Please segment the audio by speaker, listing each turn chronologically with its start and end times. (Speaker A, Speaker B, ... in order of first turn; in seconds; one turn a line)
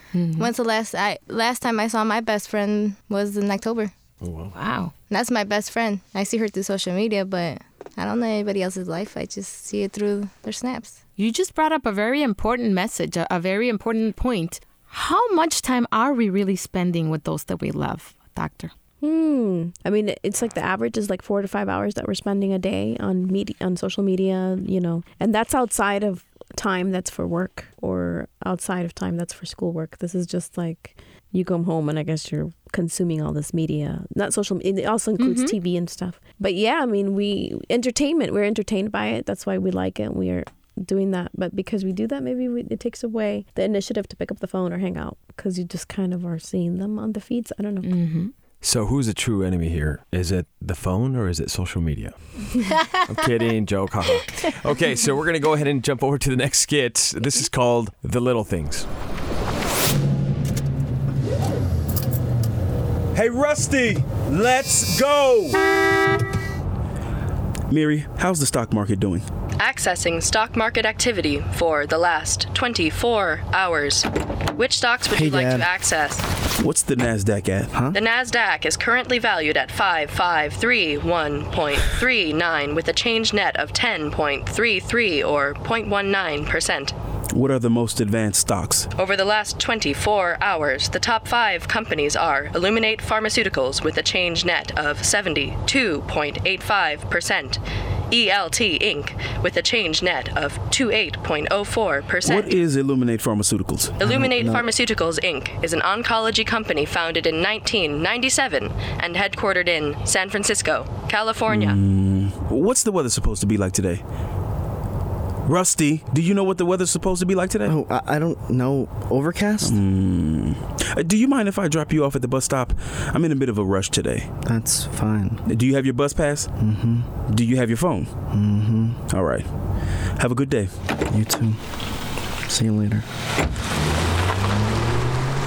Speaker A: 0.1-0.5
Speaker B: 0.4-3.9
Speaker C: 4.2-4.5
Speaker A: 4.5-4.9
Speaker B: 5.1-11.0
Speaker A: 11.2-18.7
Speaker D: 19.0-48.0
Speaker A: 35.2-35.5
Speaker A: 47.8-48.3
Speaker C: 48.6-58.9
Speaker E: 63.1-65.6
Speaker E: 67.7-69.2
Speaker F: 69.6-76.3
Speaker G: 75.1-75.7
Speaker E: 76.6-77.7
Speaker F: 77.9-86.9
Speaker E: 87.3-88.9
Speaker F: 88.9-102.6
Speaker E: 102.2-104.5
Speaker F: 104.0-111.8
Speaker G: 104.2-104.6
Speaker E: 111.5-114.0
Speaker E: 115.5-117.7
Speaker G: 117.7-119.7
Speaker E: 119.6-124.3
Speaker G: 124.5-125.4
Speaker E: 125.4-126.6
Speaker G: 126.6-127.1
Speaker E: 127.2-128.1
Speaker G: 128.3-129.0
Speaker E: 129.1-129.5
Speaker E: 130.2-130.7
Speaker G: 131.1-131.6
Speaker G: 132.4-133.1